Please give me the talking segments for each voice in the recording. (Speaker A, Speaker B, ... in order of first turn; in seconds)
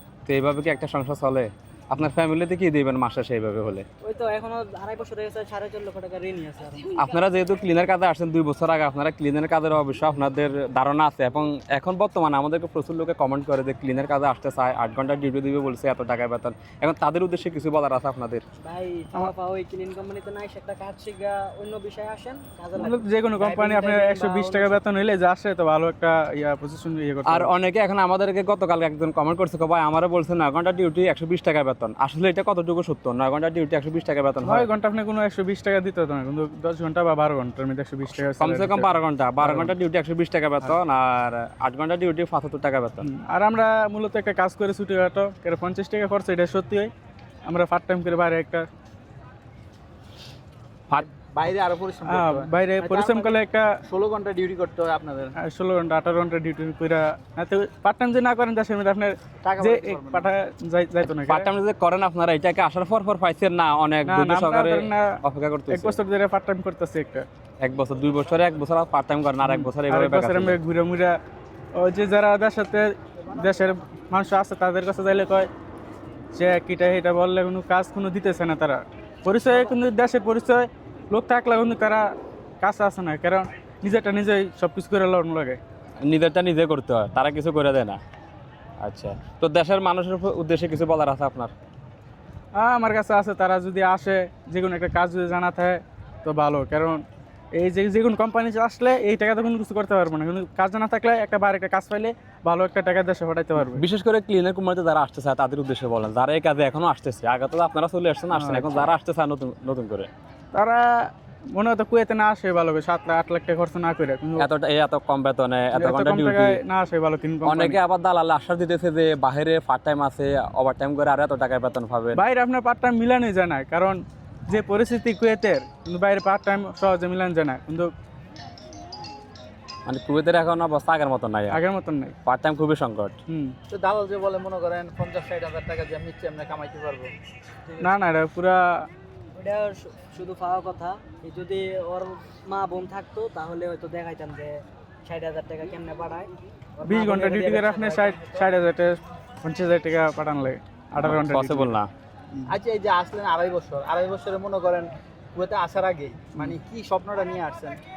Speaker A: 0.3-3.9, 6.9-18.4, 27.3-34.7, 38.4-43.1, 61.2-66.0, 67.6-70.6, 86.0-88.0, 88.8-91.5, 103.6-110.1, 114.4-116.6, 117.5-122.2, 129.9-131.6, 132.2-133.2, 151.0-151.9
Speaker B: 4.0-6.9, 18.6-24.8, 137.7-137.9, 139.3-148.6
Speaker C: 22.8-27.5, 34.4-39.7, 43.0-46.9, 47.5-48.7, 52.1-53.7, 55.4-61.5, 64.1-67.3, 69.4-71.2, 71.7-75.5, 76.3-82.1, 82.6-85.6, 92.5-103.8, 108.3-108.9, 110.5-114.5, 115.7-117.8, 122.2-127.9, 131.5-132.2, 133.3-133.6, 137.8-138.8, 146.9-151.8
Speaker D: 51.0-55.3, 59.4-60.3, 133.7-137.1, 152.5-157.8